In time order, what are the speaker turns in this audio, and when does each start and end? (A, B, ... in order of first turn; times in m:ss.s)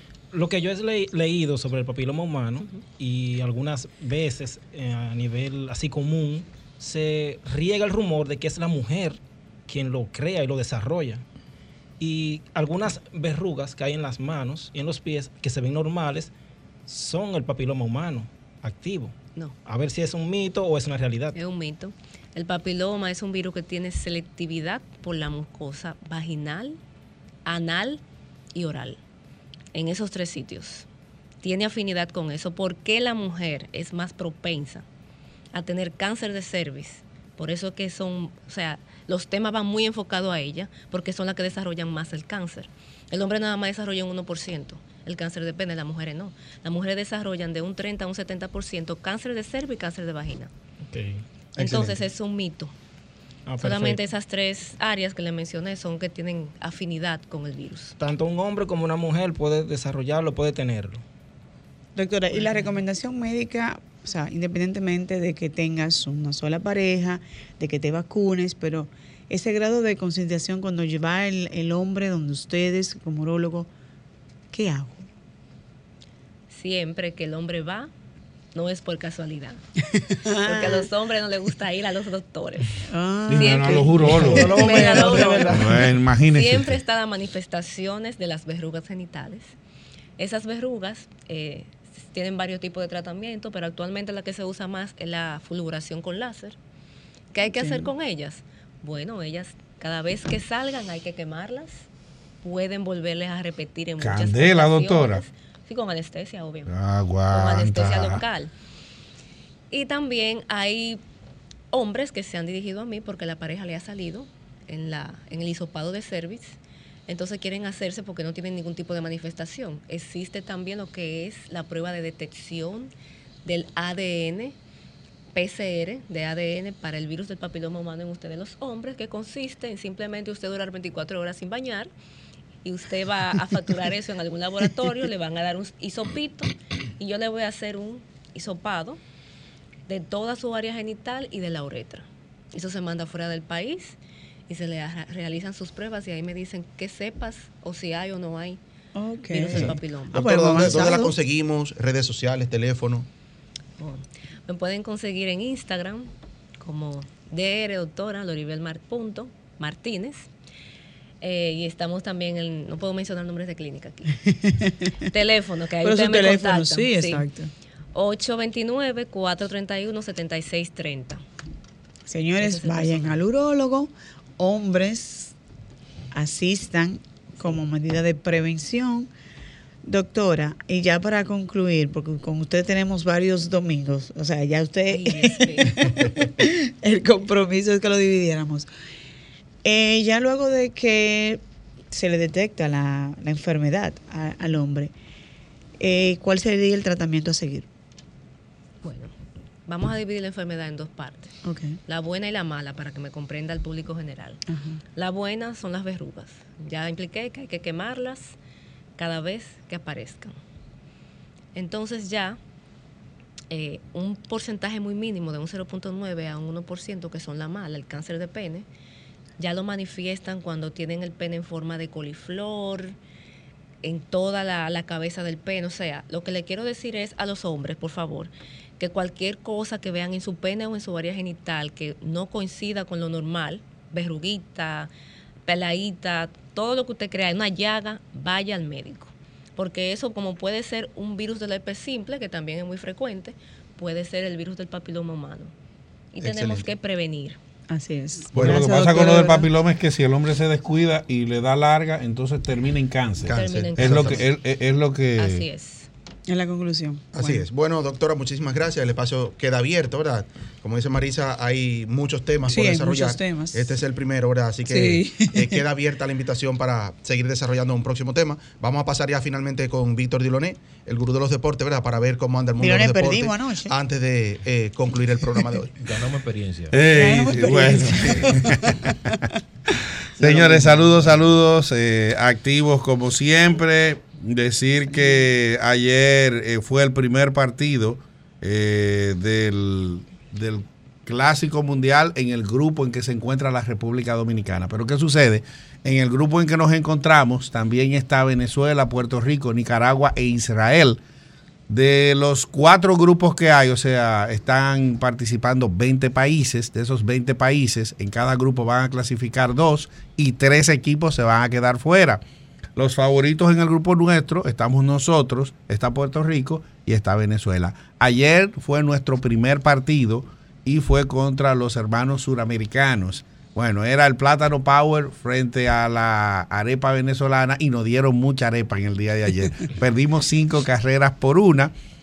0:00.3-0:11.2 A
0:12.0-0:16.3 A
0:16.9-0:19.1 A
0:19.6-0:21.4 A
0:21.3-0:26.8 B
0:27.4-0:28.0 B
0:28.5-0:29.0 B
0:29.7-0:30.9 B
0:31.4-0:34.8 B
0:35.5-0:50.5 B
0:50.9-0:51.2 A
0:51.6-0:52.0 C
0:51.6-0:52.7 B
0:53.5-0:54.0 A
0:53.6-0:58.0 B
0:58.0-1:01.0 A
1:02.0-1:13.7 D
1:14.5-1:15.1 D
1:16.5-1:17.9 B
1:18.5-1:19.6 B
1:20.2-1:20.8 D
1:20.4-1:22.8 B
1:22.9-1:25.6 D
1:23.3-1:24.6 E
1:23.3-1:29.5 B
1:24.0-1:25.7 A
1:25.5-1:26.7 E
1:30.2-1:36.6 B
1:37.3-1:41.9 B
1:37.4-1:37.9 D
1:42.4-1:46.7 B
1:44.0-1:45.2 E
1:46.7-1:48.2 E
1:47.3-1:48.5 B
1:49.7-1:51.0 B
1:51.7-2:02.9 B
2:03.4-2:04.6 B
2:05.3-2:11.9 B
2:12.6-2:19.0 B
2:19.9-2:24.0 B
2:24.5-2:28.6 B
2:28.9-2:31.1 D
2:29.3-2:30.9 B
2:29.5-2:33.1 C
2:33.8-2:36.1 B
2:36.6-2:40.3 B
2:41.2-2:44.3 B
2:45.1-2:47.3 B
2:45.8-2:47.5 D
2:47.9-2:51.2 B
2:52.1-2:55.3 D
2:52.4-2:53.2 B
2:56.1-2:59.1 D
2:59.8-3:08.7 D
3:04.9-3:05.9 B
3:09.6-3:14.9 D
3:15.8-3:17.7 D
3:18.8-3:19.1 B
3:19.7-3:21.3 B
3:21.4-3:21.8 D
3:21.9-3:24.4 B
3:24.5-3:24.8 D
3:25.0-3:28.4 B
3:29.0-3:30.3 B
3:31.5-3:32.4 B
3:33.5-3:38.6 B
3:39.4-3:42.9 B
3:43.8-3:54.9 B
3:55.5-4:05.5 B
4:06.1-4:07.4 B
4:06.2-4:06.7 C
4:07.7-4:09.5 D
4:08.3-4:08.7 C
4:08.3-4:15.4 E
4:13.2-4:14.2 C
4:13.2-4:14.2 B
4:15.2-4:15.9 B
4:16.3-4:17.4 D
4:17.1-4:35.7 C
4:22.5-4:23.7 D
4:24.6-4:25.6 D
4:32.6-4:33.7 D
4:35.8-4:36.8 F
4:36.7-4:38.8 E
4:36.9-4:39.1 D
4:40.2-5:01.0 E
4:40.2-4:41.5 F
5:01.7-5:12.2 E
5:12.8-5:31.7 E